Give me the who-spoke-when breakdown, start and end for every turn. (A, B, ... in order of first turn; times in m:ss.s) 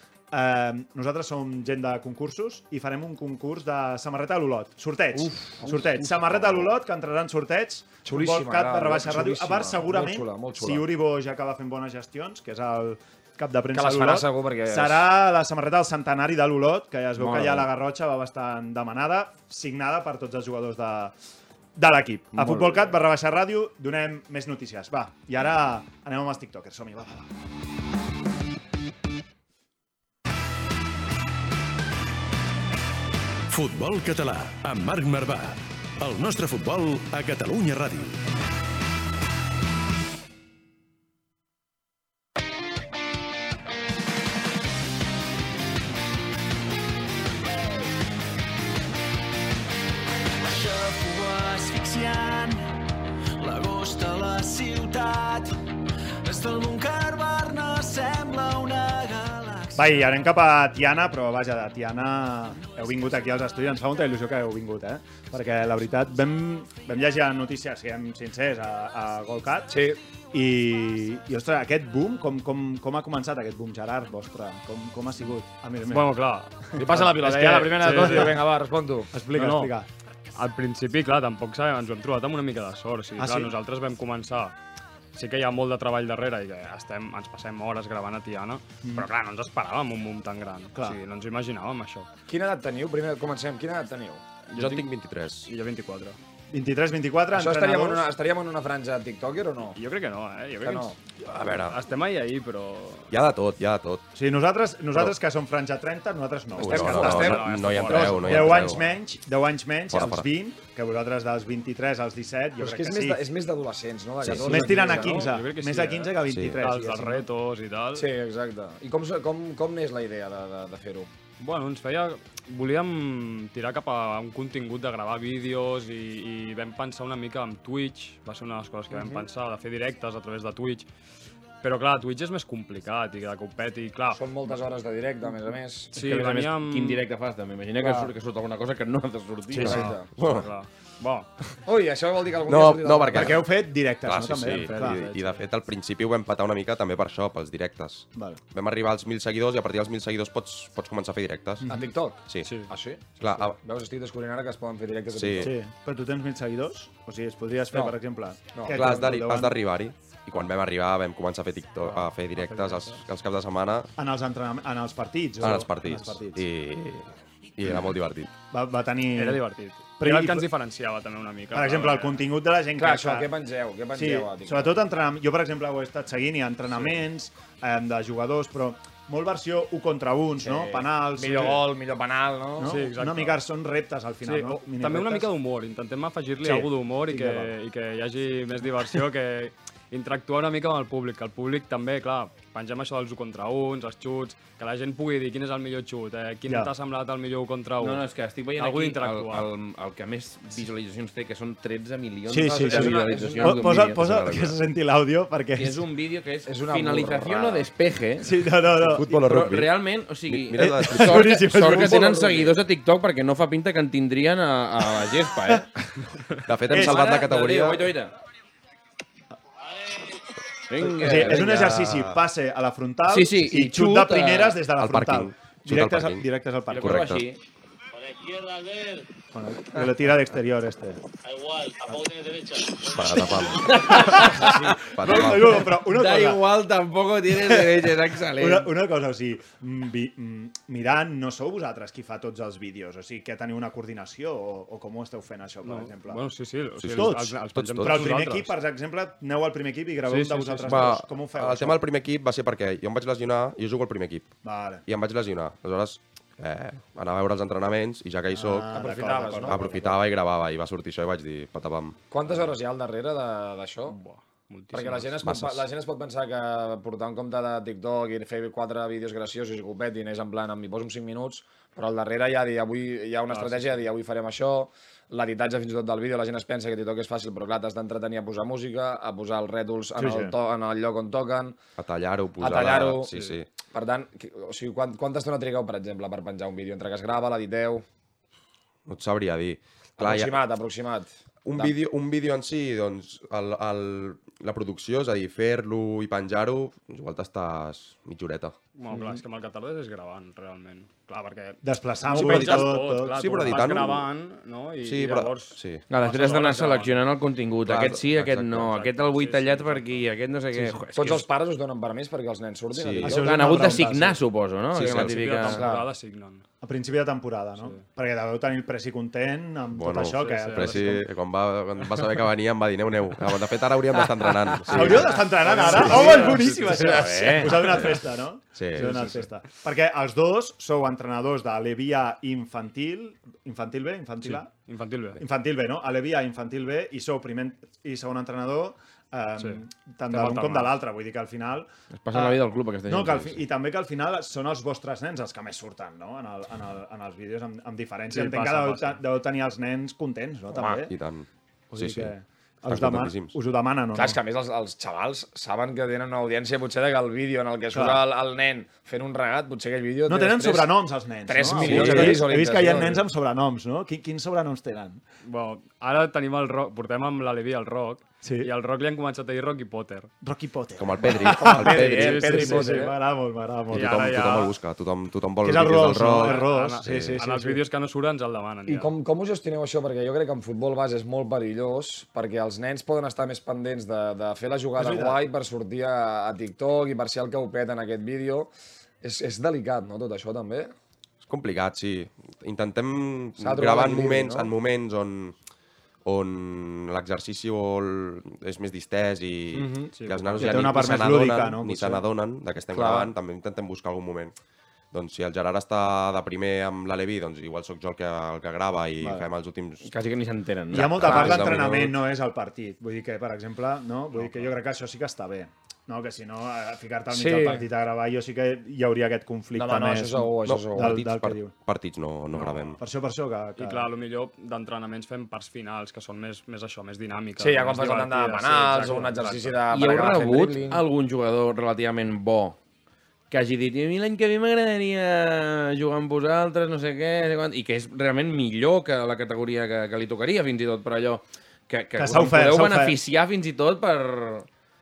0:00.3-0:21.2 A
0:05.2-0:06.7 B
0:08.0-0:10.9 B
0:13.7-0:15.1 B
0:17.2-0:17.7 B
0:21.8-0:27.3 A
0:22.4-0:22.8 B
0:33.5-0:38.2 C
0:50.4-0:52.7 D
0:53.4-0:55.6 D
0:56.2-1:00.0 D
0:59.8-1:09.7 A
1:09.7-1:10.0 B
1:10.3-1:16.1 A
1:15.9-1:16.6 E
1:16.7-1:18.4 A
1:16.8-1:19.7 B
1:17.8-1:18.3 E
1:19.1-1:19.9 A
1:20.4-1:24.6 E
1:23.2-1:23.5 A
1:25.1-1:32.1 E
1:32.3-1:34.2 B
1:34.5-1:34.9 E
1:34.5-1:35.5 F
1:35.5-1:36.2 E
1:36.5-1:38.0 A
1:37.3-1:39.8 B
1:39.8-1:43.1 E
1:40.6-1:40.9 B
1:41.2-1:41.8 F
1:43.1-1:44.0 F
1:44.2-1:53.2 A
1:46.6-1:48.8 F
1:46.6-1:47.5 B
1:46.8-1:48.7 E
1:49.9-1:50.3 F
1:52.6-1:55.3 B
1:54.2-1:54.7 F
1:54.4-1:57.3 A
1:54.6-1:58.1 E
1:56.3-1:56.6 F
1:58.0-2:01.1 B
2:01.4-2:10.9 E
2:08.9-2:09.2 B
2:11.6-2:14.2 E
2:14.1-2:15.9 B
2:15.9-2:17.1 E
2:15.9-2:19.8 G
2:19.6-2:20.1 B
2:19.7-2:21.3 E
2:20.2-2:20.5 F
2:21.7-2:23.4 B
2:22.5-2:23.5 F
2:23.1-2:25.0 A
2:24.0-2:31.6 F
2:24.4-2:25.4 E
2:28.1-2:28.4 A
2:31.6-2:31.9 A
2:31.7-2:35.6 B
2:32.4-2:32.7 E
2:33.2-2:33.6 F
2:35.1-2:35.5 F
2:35.4-2:39.6 A
2:37.7-2:38.0 B
2:38.5-2:38.8 B
2:38.7-2:43.9 F
2:41.8-2:43.0 E
2:44.0-2:46.4 A
2:45.4-2:48.3 F
2:48.5-2:49.4 A
2:49.2-2:52.2 E
2:50.0-2:50.5 A
2:51.5-2:53.3 A
2:52.8-2:54.8 B
2:53.9-3:01.7 A
2:56.8-2:57.0 E
3:00.4-3:02.8 B
3:02.6-3:05.3 A
3:02.6-3:03.4 E
3:04.2-3:18.0 E
3:06.4-3:07.5 A
3:16.5-3:16.7 A
3:17.8-3:24.1 G
3:18.6-3:19.5 E
3:22.3-3:25.8 A
3:22.4-3:23.7 B
3:24.0-3:24.6 F
3:25.6-3:28.3 G
3:26.5-3:27.6 B
3:28.2-3:29.3 A
3:28.8-3:31.4 F
3:29.2-3:35.7 G
3:30.6-3:32.5 A
3:36.5-3:37.9 F
3:36.7-3:37.2 A
3:36.8-3:38.1 G
3:40.7-3:41.7 G
3:40.8-3:47.1 A
3:41.3-3:42.2 F
3:43.1-3:44.6 G
3:44.8-3:47.3 F
3:46.7-3:47.4 G
3:49.3-3:51.0 A
3:52.8-3:54.3 F
3:53.6-3:54.6 G
3:54.0-3:56.5 A
3:54.8-3:55.6 F
3:55.1-3:58.7 G
3:57.3-4:06.2 A
4:05.6-4:08.6 E
4:06.8-4:08.0 F
4:06.9-4:11.8 A
4:10.0-4:11.0 E
4:10.7-4:14.4 F
4:14.4-4:14.8 A
4:14.9-4:18.7 F
4:18.3-4:19.9 A
4:18.7-4:19.9 B
4:19.5-4:22.0 F
4:22.1-4:24.0 B
4:23.9-4:25.2 E
4:24.7-4:41.6 B
4:25.2-4:25.7 F
4:33.3-4:33.7 E
4:40.0-4:40.3 A
4:41.8-4:43.5 F
4:42.4-4:43.1 B
4:43.1-4:43.4 E
4:43.7-4:47.8 B
4:48.9-4:50.4 F
4:50.0-4:51.8 B
4:51.4-4:58.6 F
4:58.8-5:07.0 E
5:01.6-5:03.8 A
5:02.1-5:04.1 F
5:04.8-5:05.8 F
5:05.9-5:11.3 G
5:07.7-5:08.7 F
5:08.5-5:10.1 E
5:11.0-5:13.8 B
5:12.7-5:13.2 F
5:13.0-5:14.2 A
5:13.1-5:15.6 G
5:14.7-5:15.3 F
5:14.8-5:16.4 E
5:16.6-5:21.0 A
5:17.6-5:17.8 E
5:19.7-5:25.2 F
5:20.2-5:21.0 E
5:24.7-5:34.5 A
5:25.5-5:26.3 B
5:25.6-5:27.8 G
5:25.7-5:27.9 E
5:26.8-5:27.5 B
5:28.6-5:28.9 F
5:28.8-5:29.3 E
5:34.2-5:35.2 E
5:35.2-5:50.9 A
5:39.4-5:40.8 E
5:42.0-5:43.4 G
5:48.1-5:49.0 E
5:50.7-5:52.1 F
5:51.7-5:54.2 A
5:52.6-5:53.4 F
5:53.9-6:00.7 B
5:57.7-5:58.0 A
6:00.1-6:05.0 A
6:01.3-6:03.0 B
6:01.6-6:02.2 F
6:05.2-6:10.1 E
6:08.2-6:08.5 A
6:10.2-6:14.4 A
6:10.8-6:12.3 F
6:11.4-6:12.9 B
6:11.8-6:12.9 E
6:13.7-6:14.5 E
6:13.7-6:17.2 F
6:15.4-6:17.6 A
6:16.2-6:18.9 E
6:18.7-6:28.5 B
6:24.8-6:25.2 A
6:29.0-6:30.7 B
6:31.2-6:35.4 F
6:33.4-6:34.5 B
6:36.0-6:44.3 F
6:39.6-6:39.9 B
6:40.0-6:40.8 E
6:40.4-6:42.0 A
6:42.7-6:43.1 B
6:44.9-6:49.9 F
6:49.8-6:51.4 G
6:50.7-7:01.5 A
6:50.9-6:51.9 F
6:51.1-6:51.5 B
6:54.2-6:54.5 E
6:57.1-6:57.7 B
6:59.5-7:01.0 B
7:00.5-7:02.8 F
7:02.4-7:03.9 A
7:03.6-7:09.6 E
7:07.4-7:10.8 B
7:09.7-7:12.6 G
7:13.3-7:24.5 G
7:22.0-7:23.0 A